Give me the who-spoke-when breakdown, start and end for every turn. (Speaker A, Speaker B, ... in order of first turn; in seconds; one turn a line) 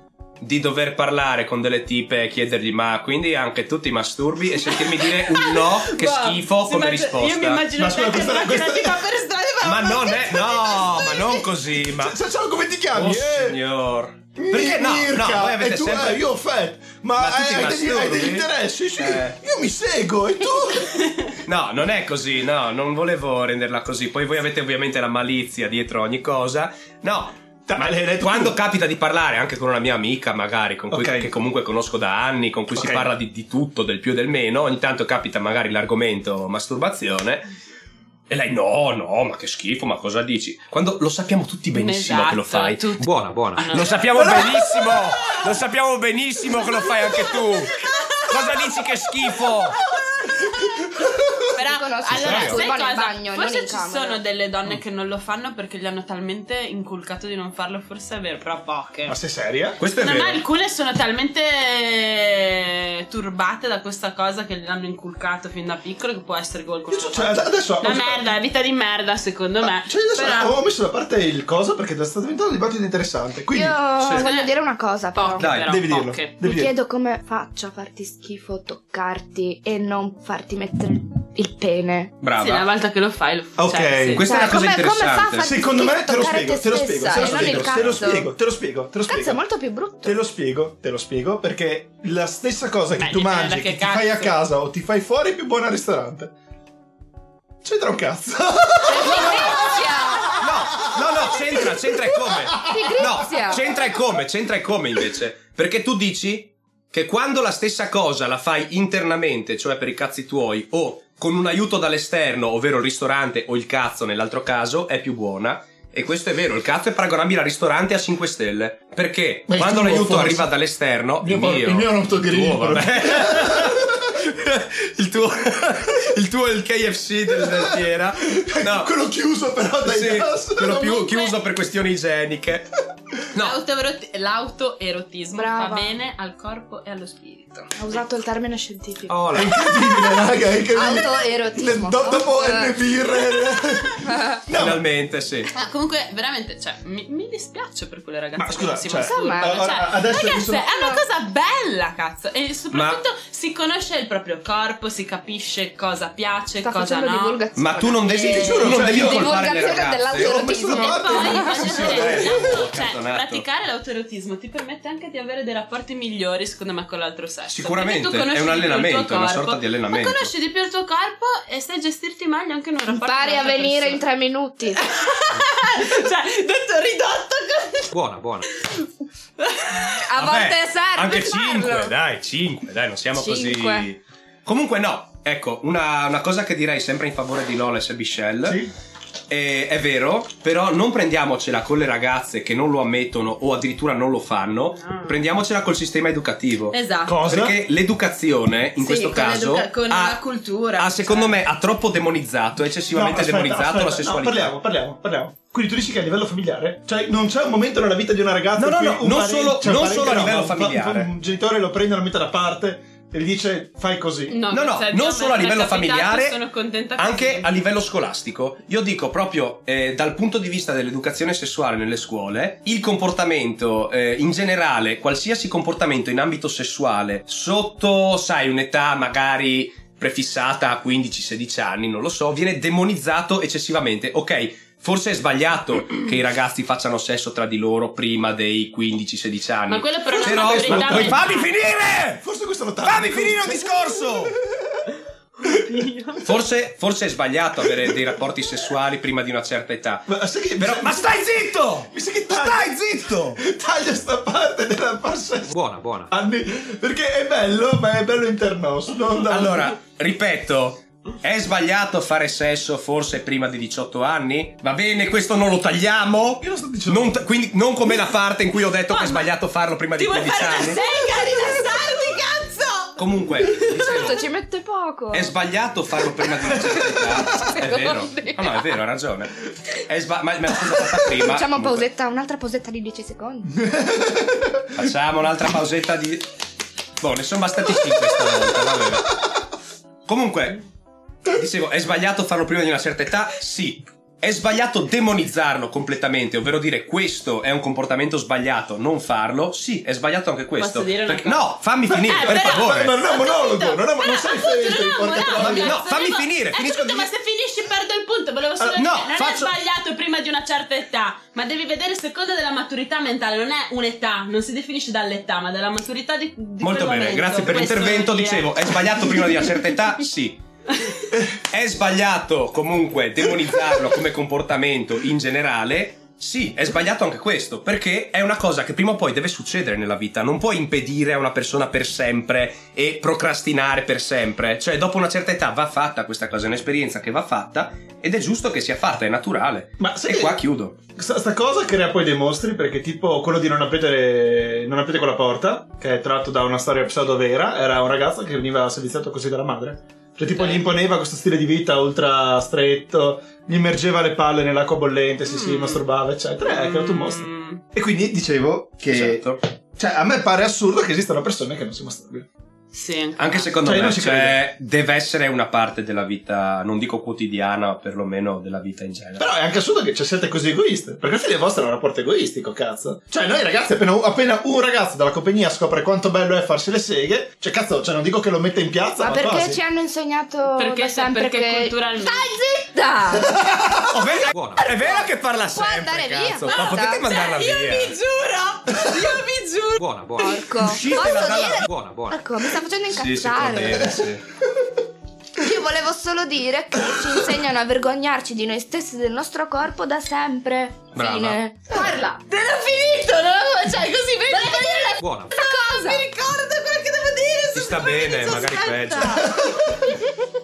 Speaker A: 0.4-7.7
Speaker B: 4.6-11.5
Speaker C: 7.8-9.0
Speaker A: 9.6-12.2
Speaker C: 11.7-13.6
Speaker A: 12.9-16.3
Speaker C: 14.3-21.1
Speaker A: 17.2-19.4
Speaker B: 20.8-21.1
Speaker A: 21.4-37.5
Speaker C: 27.7-28.6
Speaker C: 30.9-31.3
Speaker C: 32.7-33.1
Speaker A: 38.3-42.9
Speaker B: 41.7-45.3
Speaker D: 43.0-43.9
Speaker A: 43.7-49.8
Speaker C: 44.1-45.0
Speaker B: 46.5-59.2
Speaker C: 50.4-51.5
Speaker E: 51.5-54.2
Speaker C: 52.1-52.5
Speaker A: 52.1-52.6
Speaker C: 59.0-59.8
Speaker A: 59.8-60.4
Speaker B: 59.9-70.6
Speaker C: 66.9-68.2
Speaker C: 69.8-73.9
Speaker E: 73.5-75.5
Speaker B: 74.1-74.5
Speaker B: 75.1-76.4
Speaker A: 75.3-75.8
Speaker C: 75.6-76.7
Speaker E: 76.4-82.1
Speaker A: 82.2-82.7
Speaker B: 82.4-84.3
Speaker C: 83.6-84.2
Speaker A: 84.1-85.5
Speaker E: 84.2-88.3
Speaker C: 85.4-89.4
Speaker A: 87.1-88.0
Speaker E: 89.1-90.2
Speaker C: 90.0-96.3
Speaker B: 93.0-94.4
Speaker C: 97.6-102.9
Speaker E: 98.8-100.4
Speaker A: 99.2-99.6
Speaker A: 100.4-128.9
Speaker E: 102.6-103.7
Speaker C: 119.5-120.5
Speaker C: 121.2-124.0
Speaker C: 127.4-127.8
Speaker C: 128.3-130.9
Speaker A: 129.8-132.7
Speaker E: 131.0-131.3
Speaker A: 133.3-133.6
Speaker B: 133.4-138.0
Speaker E: 135.3-136.0
Speaker E: 137.8-143.1
Speaker A: 139.1-139.5
Speaker C: 139.3-144.8
Speaker E: 144.0-144.4
Speaker A: 144.5-145.5
Speaker B: 145.5-157.4
Speaker C: 148.4-150.6
Speaker E: 148.9-151.0
Speaker A: 152.7-153.0
Speaker E: 156.6-161.8
Speaker A: 157.6-160.6
Speaker B: 158.1-158.7
Speaker C: 158.1-162.4
Speaker B: 160.7-174.0
Speaker A: 161.6-163.4
Speaker A: 167.5-170.3
Speaker E: 172.9-174.9
Speaker B: 174.8-177.9
Speaker D: 177.9-178.5
Speaker B: 178.5-180.1
Speaker E: 179.9-181.9
Speaker A: 180.2-188.6
Speaker E: 183.1-183.9
Speaker C: 188.4-188.7
Speaker A: 189.3-200.2
Speaker B: 194.8-195.2
Speaker B: 196.7-197.2
Speaker C: 197.0-197.6
Speaker B: 198.8-201.4
Speaker A: 200.8-204.5
Speaker C: 202.9-214.4
Speaker A: 208.6-211.1
Speaker B: 214.3-217.5
Speaker A: 214.5-216.4
Speaker A: 217.0-242.2
Speaker B: 239.7-241.5
Speaker C: 240.2-241.3
Speaker C: 242.2-244.9
Speaker A: 242.8-244.3
Speaker B: 245.4-246.2
Speaker A: 246.2-253.4
Speaker C: 247.6-248.1
Speaker C: 250.1-255.5
Speaker D: 255.5-256.1
Speaker C: 256.1-259.8
Speaker A: 259.2-270.8
Speaker C: 266.4-267.3
Speaker B: 268.9-269.3
Speaker B: 269.9-273.6
Speaker A: 273.0-274.2
Speaker E: 273.8-275.3
Speaker A: 275.1-281.8
Speaker C: 276.5-277.6
Speaker E: 277.3-278.8
Speaker E: 281.1-283.5
Speaker C: 283.5-284.7
Speaker A: 284.8-286.2
Speaker A: 287.0-289.2
Speaker A: 290.1-290.6
Speaker A: 291.3-303.0
Speaker B: 300.6-301.5
Speaker C: 301.9-305.8
Speaker B: 302.1-319.6
Speaker A: 305.4-307.1
Speaker A: 308.7-309.5
Speaker A: 316.6-320.4
Speaker A: 321.5-340.8
Speaker C: 339.8-362.3
Speaker B: 350.3-350.7
Speaker B: 355.2-355.8
Speaker B: 356.4-357.6
Speaker A: 358.9-359.4
Speaker B: 362.7-363.5
Speaker A: 363.2-369.3
Speaker C: 363.6-364.4
Speaker C: 369.2-379.6
Speaker E: 379.0-383.5
Speaker B: 380.5-382.6
Speaker C: 383.3-383.9
Speaker A: 383.9-387.9
Speaker D: 384.3-384.8
Speaker E: 384.6-387.1
Speaker B: 386.5-390.4
Speaker D: 389.8-392.4
Speaker E: 390.2-394.0
Speaker A: 390.6-391.6
Speaker A: 392.9-394.2
Speaker E: 395.4-402.2
Speaker A: 400.9-401.4
Speaker B: 401.7-409.5
Speaker E: 404.3-406.1
Speaker D: 405.0-405.4
Speaker A: 407.5-409.2
Speaker C: 409.1-409.9